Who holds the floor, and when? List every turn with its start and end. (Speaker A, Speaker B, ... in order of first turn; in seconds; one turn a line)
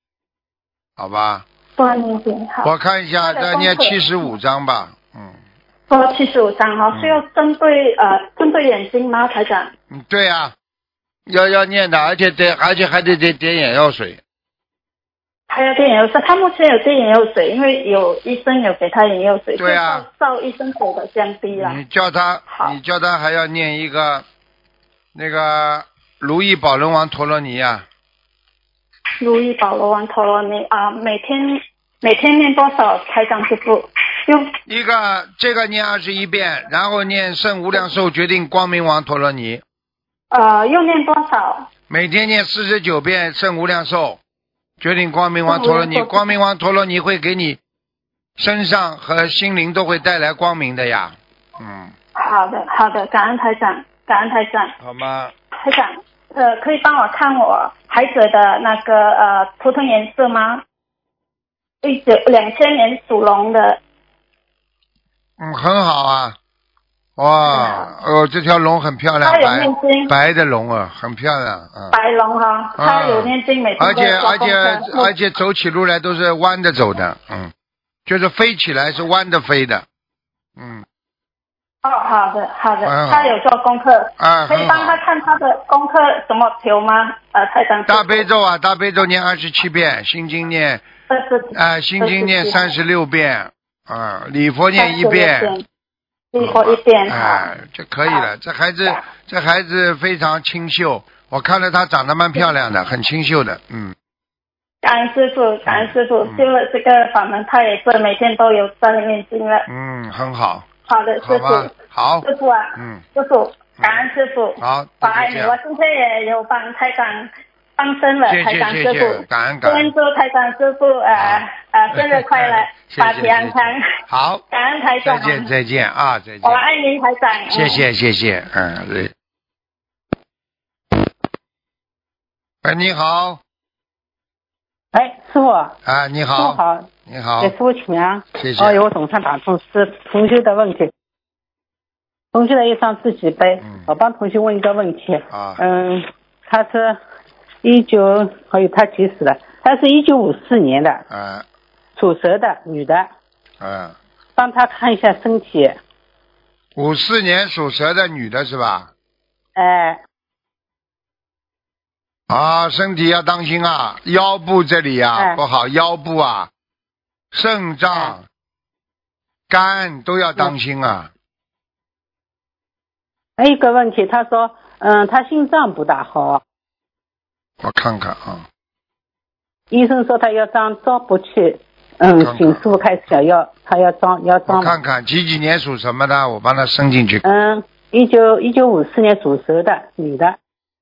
Speaker A: 1.0-1.4
Speaker B: 1.8-2.7
Speaker A: 2.6-5.4
Speaker B: 3.3-4.0
Speaker B: 5.9-9.7
Speaker A: 6.9-7.2
Speaker A: 9.9-10.5
Speaker A: 11.3-14.2
Speaker B: 15.5-21.8
Speaker A: 19.6-20.1
Speaker A: 21.5-24.2
Speaker A: 25.1-27.9
Speaker B: 29.2-34.5
Speaker A: 34.7-39.6
Speaker B: 40.3-41.7
Speaker A: 41.9-44.2
Speaker A: 44.8-47.6
Speaker B: 45.5-46.2
Speaker A: 48.4-51.9
Speaker B: 52.2-54.7
Speaker A: 54.8-55.3
Speaker B: 55.6-60.6
Speaker B: 61.8-63.8
Speaker A: 65.4-66.4
Speaker A: 67.2-72.0
Speaker B: 67.5-67.8
Speaker B: 69.2-70.1
Speaker B: 71.9-75.1
Speaker A: 72.8-77.5
Speaker A: 78.1-79.8
Speaker A: 80.6-80.8
Speaker B: 81.8-88.2
Speaker A: 82.8-83.3
Speaker A: 84.2-85.0
Speaker A: 87.9-90.8
Speaker B: 91.1-92.6
Speaker A: 91.5-95.5
Speaker B: 94.8-95.6
Speaker B: 96.3-97.4
Speaker A: 96.4-104.0
Speaker B: 104.8-109.6
Speaker A: 105.7-106.5
Speaker A: 109.7-110.7
Speaker B: 110.9-111.7
Speaker A: 111.2-113.0
Speaker B: 112.3-123.8
Speaker A: 113.8-114.0
Speaker A: 114.6-115.6
Speaker A: 118.3-119.9
Speaker A: 121.2-124.4
Speaker B: 124.5-125.4
Speaker A: 125.0-126.6
Speaker B: 126.4-127.8
Speaker A: 127.5-129.1
Speaker A: 132.6-133.4
Speaker C: 134.9-135.8
Speaker A: 135.8-137.6
Speaker C: 136.3-136.9
Speaker C: 137.4-140.9
Speaker A: 138.3-138.9
Speaker C: 142.3-147.0
Speaker A: 143.6-143.9
Speaker A: 145.3-145.6
Speaker C: 147.6-151.0
Speaker A: 151.1-151.4
Speaker C: 152.0-153.1
Speaker A: 153.6-154.0
Speaker C: 154.4-155.8
Speaker A: 156.8-158.9
Speaker C: 159.6-160.0
Speaker A: 162.3-166.5
Speaker C: 165.2-165.4
Speaker A: 167.3-168.2
Speaker C: 167.9-168.2
Speaker A: 169.5-171.1
Speaker C: 173.4-176.4
Speaker A: 177.6-178.4
Speaker C: 179.7-184.8
Speaker A: 182.2-182.9
Speaker A: 184.5-187.2
Speaker C: 187.2-190.4